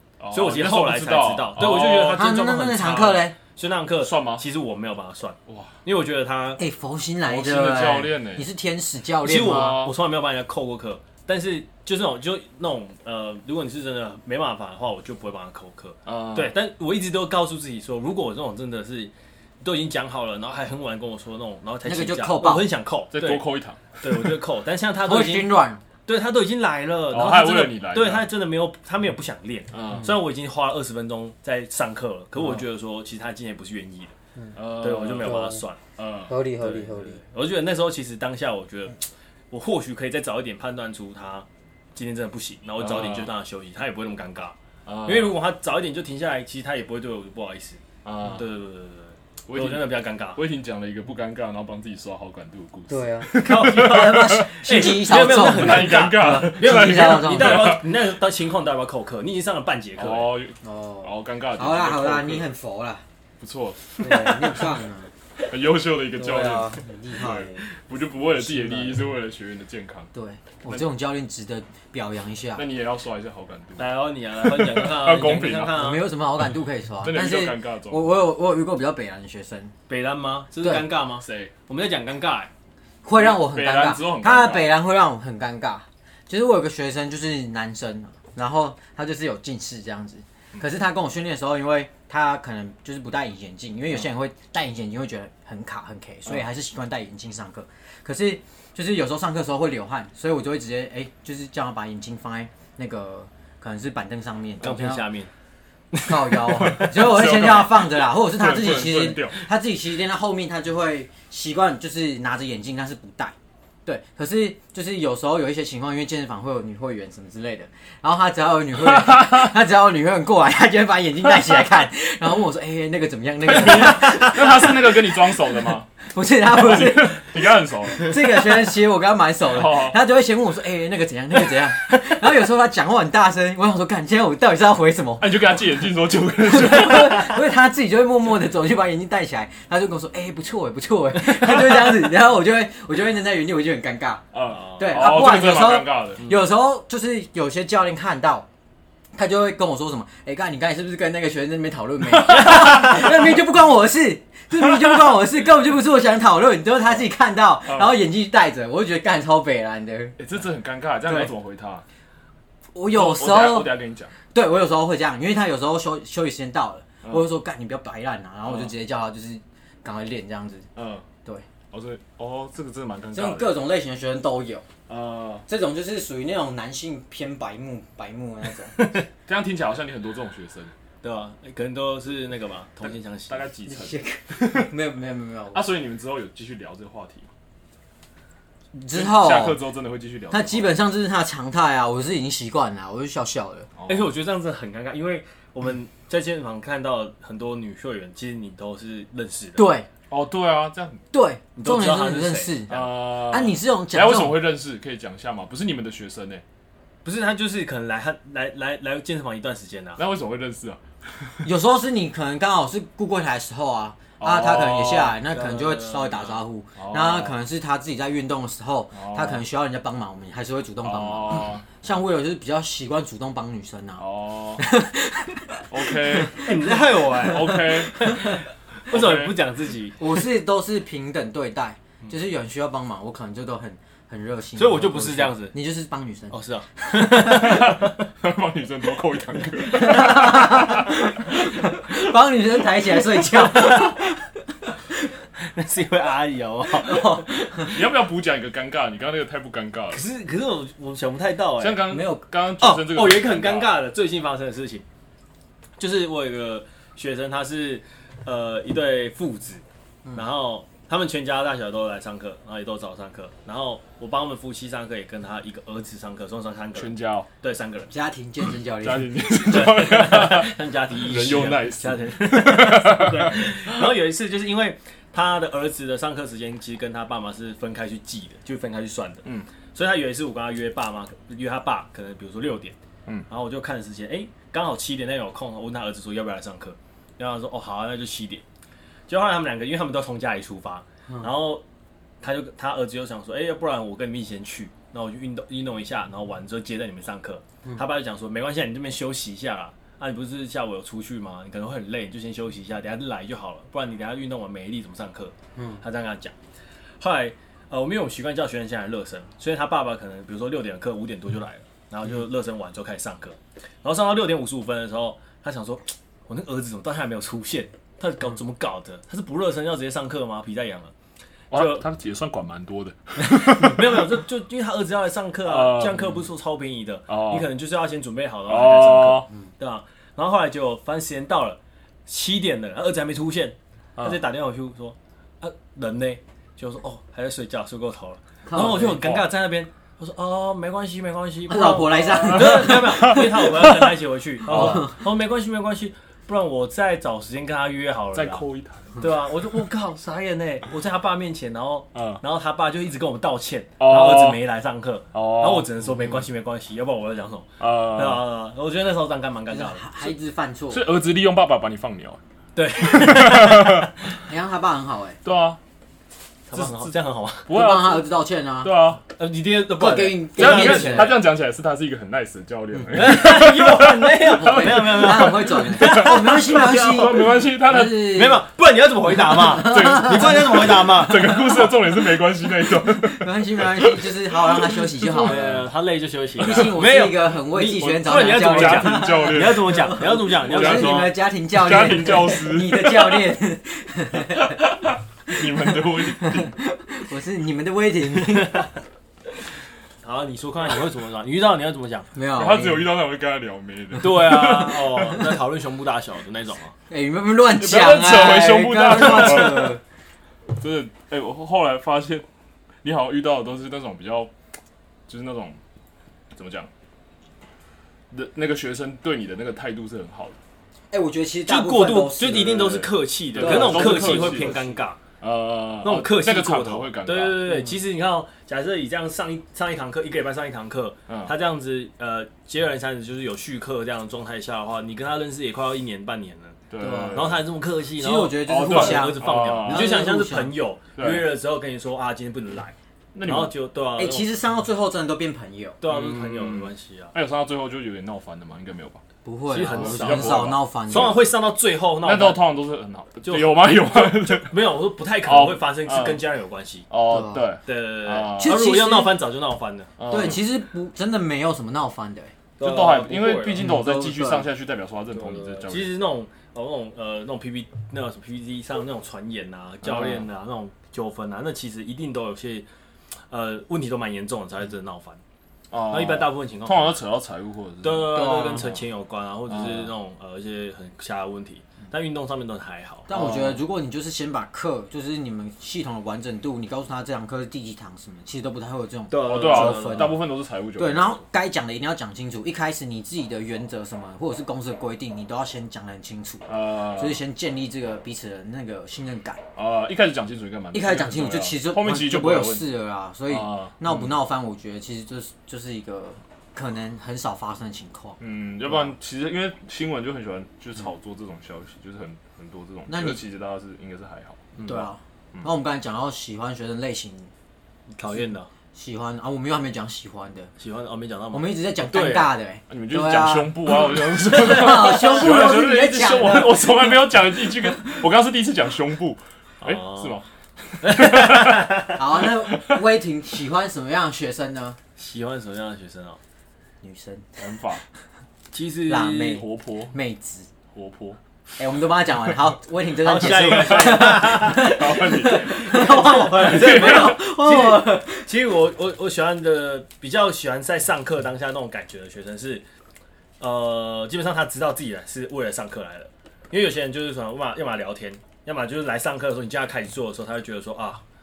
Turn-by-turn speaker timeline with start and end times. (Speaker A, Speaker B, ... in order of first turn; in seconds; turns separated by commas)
Speaker A: 0.2-2.2, Speaker B: 0.3-6.6, Speaker C: 2.1-3.4, Speaker A: 4.0-4.5, Speaker A: 5.5-5.8, Speaker C: 6.6-9.8, Speaker A: 7.2-8.5, Speaker B: 9.2-25.5, Speaker A: 9.3-9.9, Speaker A: 16.1-16.6, Speaker C: 21.9-22.7, Speaker A: 23.1-24.4, Speaker C: 25.0-25.8, Speaker B: 26.1-34.1, Speaker A: 27.1-28.3, Speaker A: 29.7-30.1, Speaker A: 34.5-36.3, Speaker B: 34.8-35.8, Speaker C: 35.2-35.6, Speaker C: 36.3-37.2, Speaker B: 36.6-47.8, Speaker A: 42.8-43.3, Speaker A: 44.9-45.4, Speaker A: 48.0-48.5, Speaker B: 48.3-50.4, Speaker A: 49.5-57.9, Speaker C: 52.9-57.8, Speaker B: 53.3-60.4, Speaker A: 60.0-62.4, Speaker C: 60.6-63.0, Speaker A: 63.4-64.7, Speaker C: 64.0-65.1, Speaker A: 65.4-70.1, Speaker C: 66.2-67.7, Speaker C: 68.3-69.0, Speaker C: 70.1-72.6, Speaker A: 72.5-75.8, Speaker B: 73.8-76.1, Speaker C: 75.7-79.7, Speaker A: 77.0-78.1, Speaker B: 79.9-82.5, Speaker A: 81.2-81.5, Speaker C: 83.0-105.0, Speaker A: 83.2-84.7, Speaker B: 104.6-105.3, Speaker B: 105.9-106.9, Speaker C: 106.0-113.3, Speaker A: 106.6-109.4, Speaker C: 113.9-125.4, Speaker A: 118.8-119.5, Speaker A: 123.5-125.9, Speaker C: 126.0-127.3, Speaker A: 126.5-128.3, Speaker C: 128.0-135.4, Speaker A: 129.5-130.0, Speaker A: 135.2-137.4, Speaker C: 136.5-144.2, Speaker A: 144.3-146.3, Speaker B: 144.5-144.9, Speaker C: 144.8-148.5, Speaker C: 149.2-160.2, Speaker A: 157.7-158.0, Speaker A: 160.2-161.8, Speaker C: 161.1-161.3, Speaker C: 162.7-163.8, Speaker A: 162.9-164.1, Speaker C: 164.3-170.7, Speaker A: 168.5-168.7, Speaker A: 170.8-171.1, Speaker A: 171.7-173.5, Speaker C: 173.1-174.7, Speaker A: 174.9-175.4, Speaker C: 175.5-178.9, Speaker A: 179.3-180.7, Speaker B: 181.0-183.5, Speaker A: 182.8-184.7, Speaker C: 183.7-185.6, Speaker A: 185.5-187.3, Speaker C: 188.7-189.6, Speaker A: 188.9-190.7, Speaker C: 190.3-193.7, Speaker A: 193.8-194.1, Speaker B: 193.9-199.7, Speaker C: 199.6-199.9, Speaker A: 200.1-201.0, Speaker C: 201.1-204.4, Speaker B: 201.6-202.6, Speaker A: 202.7-206.4, Speaker B: 207.1-210.0, Speaker A: 210.0-211.5, Speaker C: 211.4-224.0, Speaker A: 214.2-215.2, Speaker B: 215.3-216.4, Speaker A: 216.8-217.3, Speaker A: 218.9-219.4, Speaker A: 220.8-221.7, Speaker A: 224.0-224.6, Speaker C: 224.6-226.5, Speaker A: 225.7-228.3, Speaker B: 226.4-230.0, Speaker A: 228.9-229.4, Speaker C: 230.0-236.3, Speaker B: 234.6-235.5, Speaker B: 236.3-238.0, Speaker A: 237.2-241.5, Speaker C: 239.7-244.1, Speaker B: 243.4-244.1, Speaker B: 245.4-247.8, Speaker A: 247.6-250.0, Speaker B: 249.9-251.9, Speaker A: 251.6-253.8, Speaker C: 251.9-252.2, Speaker B: 252.6-254.8, Speaker B: 255.8-259.6, Speaker B: 260.1-267.9, Speaker A: 266.8-267.3, Speaker C: 267.9-269.2, Speaker A: 268.8-273.9, Speaker B: 269.4-282.8, Speaker B: 283.3-288.4, Speaker B: 289.1-291.6, Speaker B: 292.2-306.3, Speaker C: 305.6-305.8, Speaker B: 307.0-320.9, Speaker B: 321.5-321.9, Speaker A: 321.5-324.2, Speaker B: 323.2-348.4, Speaker A: 325.4-326.1, Speaker A: 327.1-327.5, Speaker A: 328.5-329.3, Speaker C: 338.5-339.0, Speaker C: 341.5-343.5, Speaker A: 342.2-343.9, Speaker A: 344.5-344.9, Speaker C: 344.5-344.9, Speaker A: 348.1-349.3, Speaker B: 349.0-359.9, Speaker A: 351.9-352.2, Speaker A: 353.8-354.4, Speaker A: 355.1-355.7, Speaker A: 357.6-358.2, Speaker C: 359.5-360.9, Speaker A: 360.7-362.2, Speaker B: 362.6-363.9, Speaker A: 362.8-363.9, Speaker C: 364.2-365.2, Speaker A: 365.2-365.6, Speaker B: 366.5-367.5, Speaker A: 366.5-366.9, Speaker A: 367.5-368.1, Speaker C: 367.5-368.9, Speaker A: 368.6-369.0, Speaker B: 369.2-371.2, Speaker C: 369.8-371.2, Speaker A: 370.4-378.1, Speaker C: 372.7-373.0, Speaker B: 372.9-377.3, Speaker C: 374.4-378.4, Speaker B: 378.0-381.4, Speaker A: 379.3-385.6, Speaker C: 379.5-381.4, Speaker C: 383.0-385.5, Speaker B: 385.2-391.1, Speaker C: 386.4-394.6, Speaker A: 386.4-386.8, Speaker A: 387.8-393.3, Speaker A: 394.3-396.5, Speaker C: 395.3-398.7, Speaker B: 398.3-398.7, Speaker B: 400.0-402.1, Speaker C: 402.1-402.9, Speaker A: 402.3-405.3, Speaker B: 404.0-406.7, Speaker C: 406.9-409.8, Speaker A: 407.6-409.8, Speaker A: 410.5-412.3, Speaker A: 412.8-414.3, Speaker A: 415.1-415.6, Speaker A: 416.4-416.7, Speaker A: 418.1-420.4, Speaker C: 420.9-422.7, Speaker B: 421.5-425.0, Speaker A: 422.4-424.6, Speaker C: 423.4-424.7, Speaker A: 425.2-427.6, Speaker B: 425.8-444.3, Speaker A: 431.1-431.3, Speaker A: 436.7-437.4, Speaker C: 436.8-437.3, Speaker C: 438.0-440.5, Speaker A: 438.5-440.1, Speaker A: 441.0-441.3, Speaker A: 443.1-443.5, Speaker C: 444.0-445.8, Speaker B: 445.8-447.1, Speaker A: 445.9-449.0, Speaker C: 449.2-451.2, Speaker B: 449.5-452.4, Speaker A: 449.6-451.2, Speaker A: 452.0-454.6, Speaker B: 453.3-456.9, Speaker A: 455.2-456.2, Speaker A: 456.9-458.7, Speaker C: 457.1-457.5, Speaker B: 457.7-460.1, Speaker C: 458.4-459.1, Speaker A: 460.0-460.4, Speaker C: 460.1-462.3, Speaker B: 462.6-463.7, Speaker A: 462.6-466.0, Speaker C: 463.6-464.5, Speaker B: 465.2-472.7, Speaker A: 469.8-470.3, Speaker B: 473.3-475.2, Speaker A: 475.7-478.8, Speaker B: 475.9-476.9, Speaker B: 477.8-483.1, Speaker C: 478.1-478.7, Speaker A: 479.5-479.9, Speaker C: 483.1-490.2, Speaker A: 483.1-483.6, Speaker B: 489.1-490.2, Speaker A: 489.1-491.2, Speaker C: 490.8-499.4, Speaker A: 496.5-497.2, Speaker A: 499.6-502.7, Speaker C: 500.7-508.9, Speaker A: 503.3-504.1, Speaker A: 508.2-514.4, Speaker C: 512.9-513.2, Speaker B: 514.6-514.9, Speaker C: 514.6-517.3, Speaker B: 518.0-518.5, Speaker C: 518.7-520.5, Speaker B: 520.6-522.3, Speaker C: 521.3-526.8, Speaker A: 522.7-532.8, Speaker B: 529.6-530.2, Speaker B: 530.8-532.0, Speaker C: 532.0-534.8, Speaker B: 535.0-536.2, Speaker C: 536.8-537.4, Speaker A: 537.4-537.8, Speaker B: 538.5-539.4, Speaker C: 538.9-540.5, Speaker A: 539.2-539.9, Speaker A: 540.7-541.2, Speaker C: 541.6-548.3, Speaker B: 543.0-552.6, Speaker A: 543.2-547.2, Speaker B: 553.4-561.0